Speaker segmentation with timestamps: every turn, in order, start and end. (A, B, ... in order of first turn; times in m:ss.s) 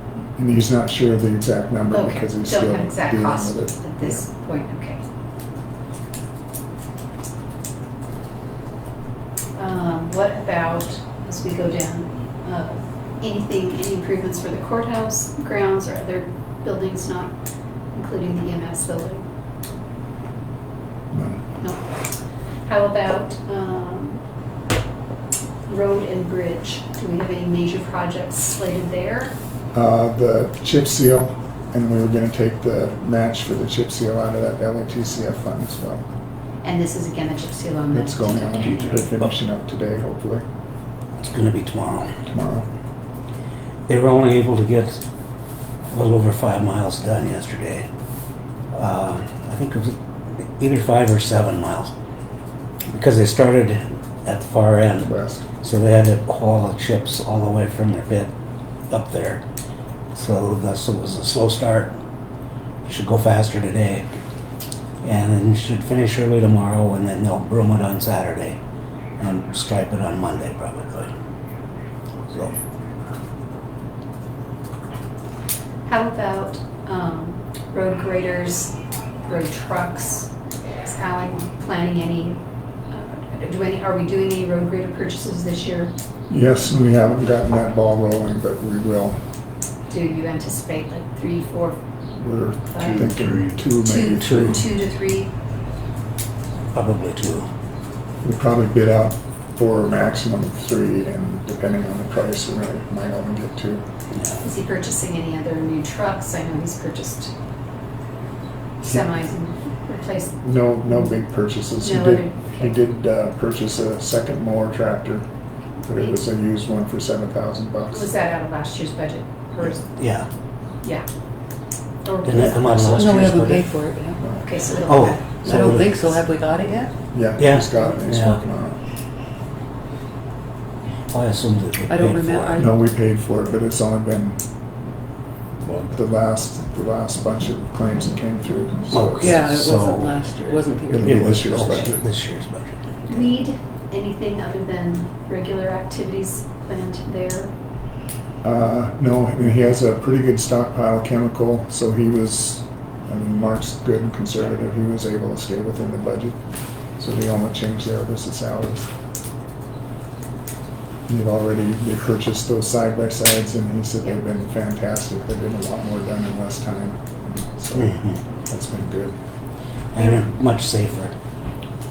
0:00.4-0:04.2 A
0:01.9-0:05.0 B
0:09.6-0:17.3 B
0:17.9-0:19.2 B
0:21.1-0:21.4 A
0:21.6-0:21.9 B
0:22.6-0:24.2 B
0:25.7-0:29.3 B
0:29.7-0:36.0 A
0:36.6-0:39.2 B
0:37.9-0:40.4 A
0:41.2-0:42.1 C
0:42.3-0:42.7 A
0:43.9-0:45.0 C
0:45.9-0:47.9 C
0:48.7-0:51.9 C
0:52.9-0:55.1 C
0:55.0-0:55.5 A
0:55.6-0:58.3 C
0:58.9-0:59.4 C
1:00.1-1:02.0 C
1:02.8-1:04.1 C
1:05.0-1:08.6 C
1:09.2-1:11.1 C
1:15.8-1:20.3 B
1:20.8-1:25.9 B
1:26.3-1:29.2 A
1:29.9-1:31.8 B
1:32.1-1:34.6 A
1:32.6-1:33.1 B
1:32.9-1:33.4 C
1:33.8-1:35.3 B
1:34.2-1:34.6 C
1:36.7-1:37.5 C
1:38.2-1:43.8 A
1:44.1-1:44.4 C
1:44.4-1:47.3 B
1:48.8-1:50.4 B
1:48.8-1:49.1 A
1:50.4-1:55.3 A
1:51.8-1:52.8 B
1:55.8-1:58.1 A
1:57.9-2:00.0 B
1:59.9-2:00.3 C
2:02.0-2:03.3 B
2:02.2-2:03.8 C
2:03.0-2:04.2 D
2:04.2-2:04.6 A
2:04.4-2:05.4 B
2:04.9-2:06.0 C
2:05.4-2:05.9 A
2:05.4-2:07.0 D
2:07.1-2:08.8 A
2:07.4-2:08.4 C
2:11.1-2:12.6 C
2:11.9-2:12.8 D
2:12.6-2:14.4 A
2:15.9-2:19.2 A
2:18.9-2:22.7 C
2:19.2-2:21.5 D
2:20.9-2:22.0 A
2:23.1-2:27.5 B
2:28.4-2:36.4 A
2:37.0-2:38.9 A
2:41.1-2:49.2 A
2:49.9-2:51.1 C